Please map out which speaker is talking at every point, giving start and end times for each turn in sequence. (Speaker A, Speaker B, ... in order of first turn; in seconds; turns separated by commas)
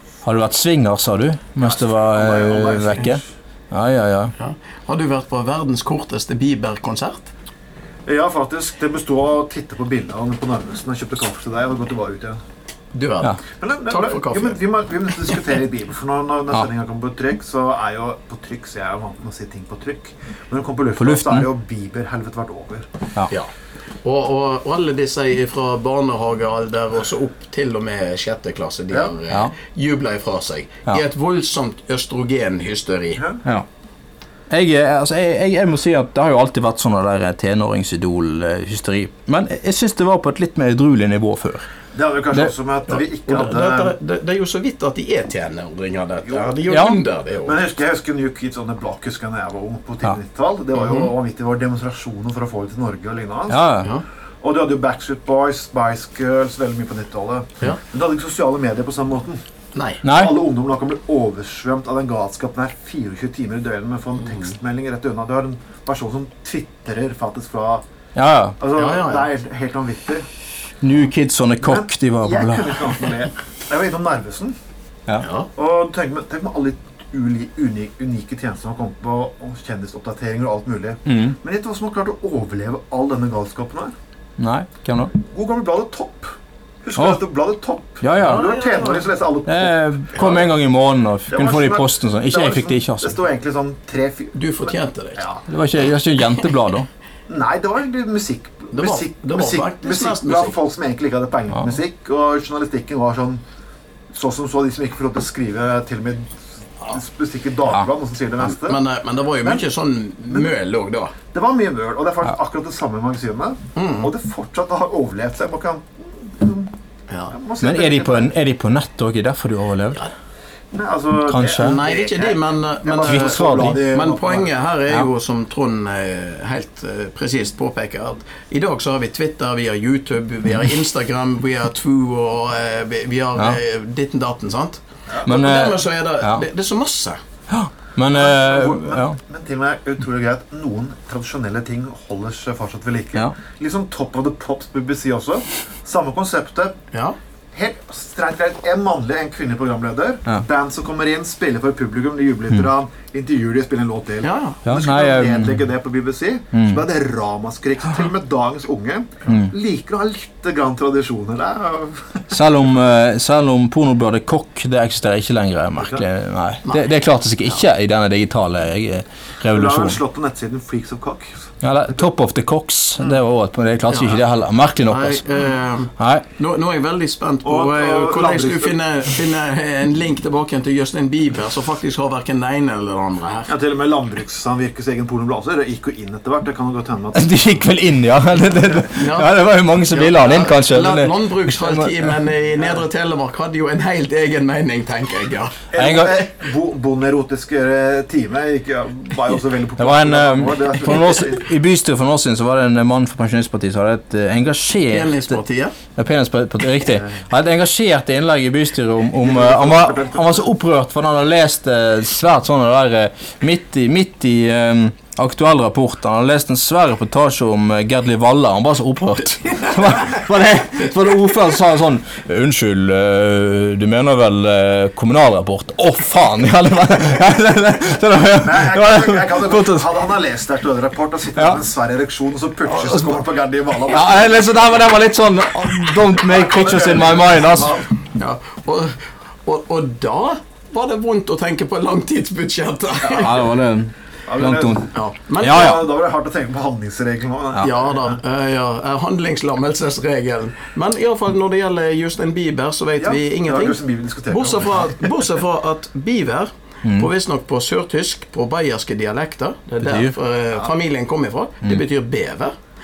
Speaker A: 0.2-4.3, Speaker B: 1.6-3.2, Speaker C: 4.4-7.3, Speaker B: 8.1-12.4, Speaker C: 12.9-14.6, Speaker B: 13.6-22.9, Speaker A: 21.0-21.5, Speaker C: 24.0-33.2, Speaker B: 33.2-33.4, Speaker A: 34.5-41.6, Speaker B: 41.9-44.0, Speaker C: 42.9-47.6, Speaker B: 46.2-46.6, Speaker A: 46.7-47.0, Speaker B: 47.4-53.8, Speaker C: 50.8-51.1, Speaker A: 53.5-53.9, Speaker B: 54.4-59.4, Speaker C: 59.8-60.0, Speaker A: 60.0-60.4, Speaker B: 60.0-67.8, Speaker A: 68.2-68.6, Speaker B: 68.6-70.2, Speaker C: 68.8-69.3, Speaker A: 70.8-72.8, Speaker B: 71.6-74.6, Speaker C: 75.2-75.5, Speaker B: 75.5-83.9, Speaker A: 81.1-81.4, Speaker A: 84.4-85.1, Speaker B: 85.2-90.4, Speaker A: 87.0-87.2, Speaker A: 88.0-88.5, Speaker C: 88.2-89.1, Speaker A: 89.5-93.2, Speaker B: 91.3-95.4, Speaker C: 94.3-95.2, Speaker A: 95.5-96.9, Speaker B: 97.3-103.4, Speaker C: 98.7-100.6, Speaker B: 104.1-108.8, Speaker C: 108.4-111.1, Speaker B: 111.3-116.7, Speaker C: 113.8-114.1, Speaker B: 117.3-118.3, Speaker A: 117.6-120.0, Speaker B: 120.7-124.5, Speaker A: 121.3-121.8, Speaker C: 121.6-137.2, Speaker A: 123.1-123.8, Speaker A: 135.3-136.4, Speaker A: 137.5-139.2, Speaker B: 138.1-146.8, Speaker B: 147.5-162.3, Speaker C: 154.2-154.6, Speaker A: 154.7-155.6, Speaker A: 156.5-156.8, Speaker A: 159.3-159.5, Speaker A: 162.3-170.0, Speaker B: 165.8-166.0, Speaker B: 169.5-172.1, Speaker A: 171.6-175.3, Speaker C: 173.9-174.2, Speaker C: 174.9-183.5, Speaker A: 176.0-176.2, Speaker B: 177.4-178.8, Speaker B: 183.5-187.4, Speaker A: 187.2-192.1, Speaker C: 188.9-195.6, Speaker B: 195.7-201.5, Speaker A: 195.8-196.2, Speaker A: 199.8-205.4, Speaker C: 204.9-205.8, Speaker A: 205.9-229.9, Speaker B: 209.2-210.4, Speaker B: 228.3-234.4, Speaker A: 232.9-233.1, Speaker A: 233.9-237.8, Speaker B: 236.2-237.9, Speaker C: 238.1-243.4, Speaker A: 243.0-245.8, Speaker B: 244.3-248.2, Speaker C: 244.9-245.8, Speaker C: 247.6-262.6, Speaker B: 253.0-255.2, Speaker A: 256.8-257.1, Speaker A: 259.8-260.1